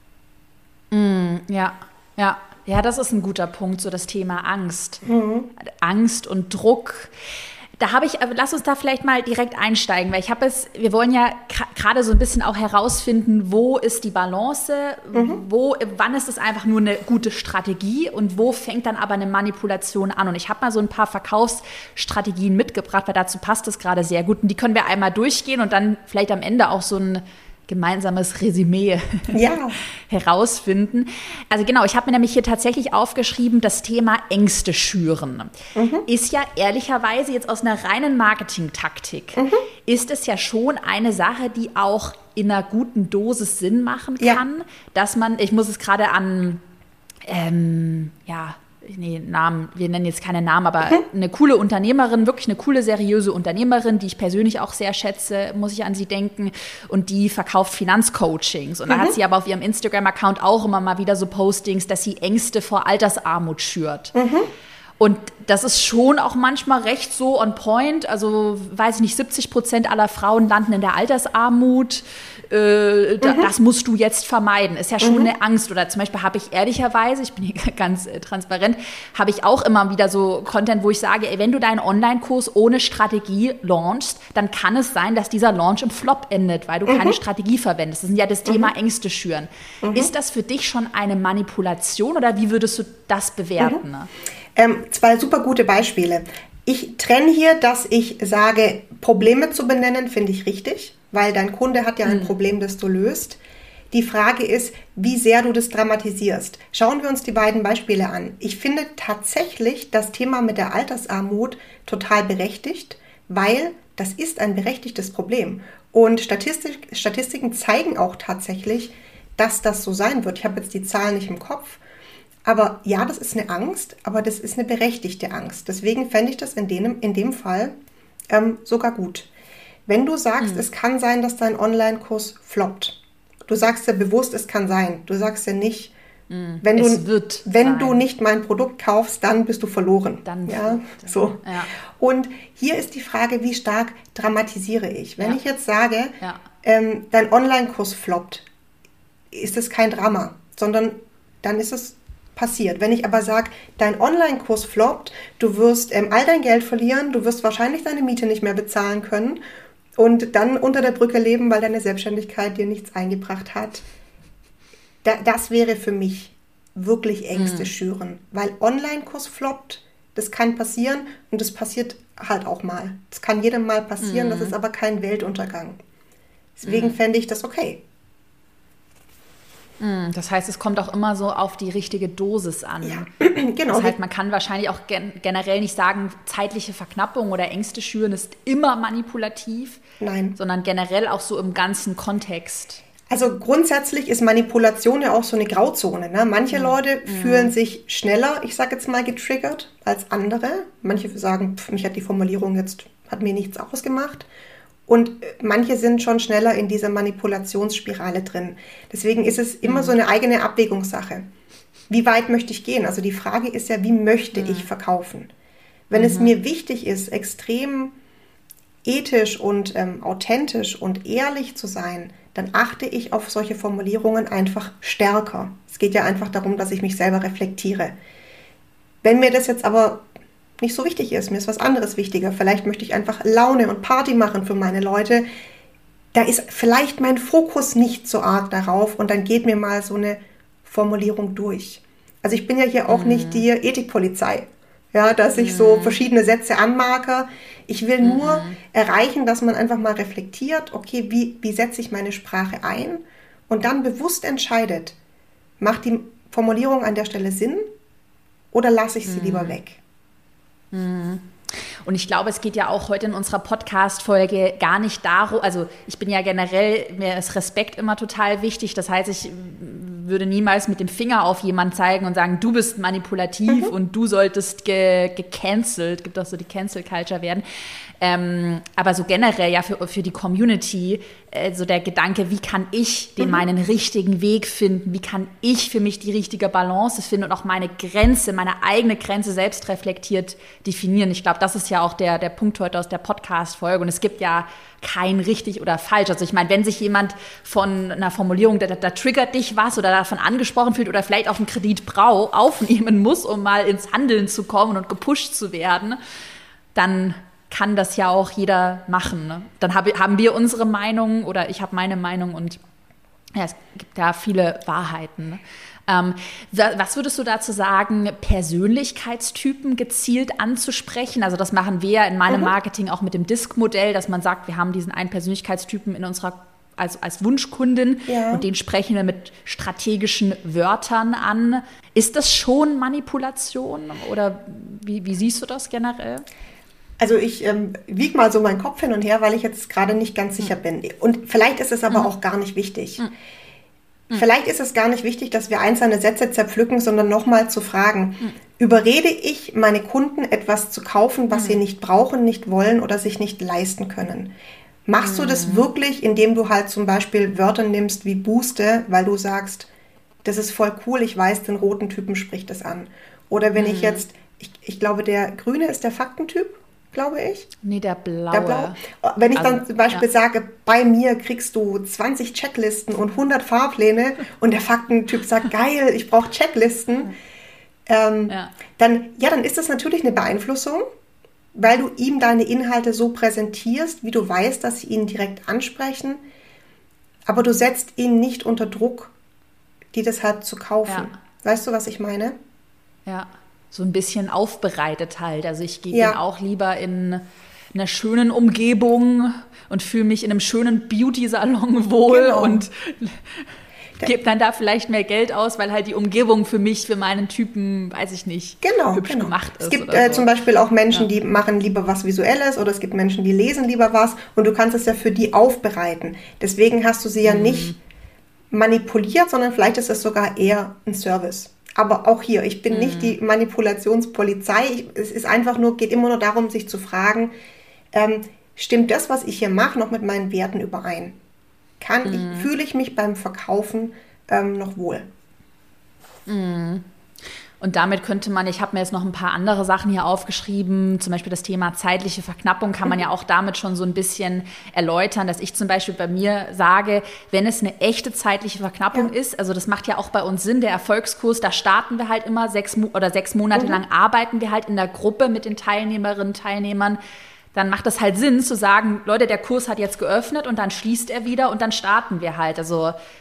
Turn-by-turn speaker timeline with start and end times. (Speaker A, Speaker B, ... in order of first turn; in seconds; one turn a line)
Speaker A: 0.9-5.0
Speaker B: 5.0-5.5
Speaker A: 5.6-7.1
Speaker A: 7.8-29.5
Speaker B: 15.1-15.4
Speaker B: 29.3-29.8
Speaker A: 30.1-35.5
Speaker B: 35.7-36.1
Speaker A: 36.0-46.6
Speaker B: 39.4-39.6
Speaker A: 47.2-64.1
Speaker B: 58.9-59.1
Speaker B: 64.1-64.5
Speaker A: 65.0-94.1
Speaker B: 73.2-73.5
Speaker B: 75.0-75.3
Speaker B: 86.8-87.2
Speaker B: 89.8-90.1
Speaker B: 94.5-103.4
Speaker A: 102.0-102.3
Speaker B: 103.9-121.8
Speaker B: 122.4-127.7
Speaker B: 128.3-129.3
Speaker B: 129.9-135.9
Speaker A: 130.4-130.7
Speaker A: 136.3-138.1
Speaker B: 136.6-148.5
Speaker A: 140.2-141.7
Speaker B: 149.3-159.4
Speaker B: 159.9-163.8
Speaker B: 165.0-175.8
Speaker A: 167.3-167.7
Speaker A: 174.0-174.5
Speaker B: 176.6-177.8
Speaker A: 176.7-177.0
Speaker A: 179.8-183.1
Speaker B: 182.8-183.9
Speaker A: 183.7-189.8
Speaker B: 190.0-190.4
Speaker A: 190.4-192.8
Speaker B: 193.1-204.3
Speaker A: 196.5-197.5
Speaker B: 204.9-211.3
Speaker A: 209.6-209.9
Speaker B: 211.9-215.3
Speaker A: 214.3-214.7
Speaker B: 215.9-217.9
Speaker A: 215.9-216.3
Speaker B: 218.8-227.9
Speaker B: 229.0-230.0
Speaker B: 230.6-235.2
Speaker B: 236.1-254.9
Speaker A: 242.9-243.4
Speaker A: 245.3-246.0
Speaker A: 248.0-248.6
Speaker B: 255.6-257.6
Speaker B: 258.5-259.8
Speaker A: 259.0-259.6
Speaker A: 260.7-261.2
Speaker A: 261.8-277.4
Speaker B: 273.5-273.7
Speaker A: 278.0-306.0
Speaker A: 306.7-312.6
Speaker A: 313.3-336.2
Speaker B: 328.1-328.4
Speaker B: 337.0-343.0
Speaker B: 344.1-354.3
Speaker A: 351.3-351.6
Speaker B: 354.9-359.7
Speaker A: 355.0-355.6
Speaker B: 360.2-367.5
Speaker A: 363.5-364.0
Speaker A: 367.6-368.8
Speaker B: 368.3-377.1
Speaker A: 369.3-370.0
Speaker B: 377.9-380.8
Speaker B: 381.5-386.2
Speaker B: 387.2-389.1
Speaker B: 389.9-392.4
Speaker A: 393.1-403.5
Speaker B: 395.9-396.2
Speaker B: 402.1-402.6
Speaker A: 404.0-410.3
Speaker B: 408.6-417.7
Speaker A: 417.2-417.8
Speaker B: 418.5-427.3
Speaker A: 422.7-423.1
Speaker B: 427.9-431.1
Speaker B: 431.8-435.1
Speaker A: 432.0-432.5
Speaker A: 436.3-436.8
Speaker A: 437.6-457.0
Speaker B: 453.5-453.8
Speaker A: 457.5-462.9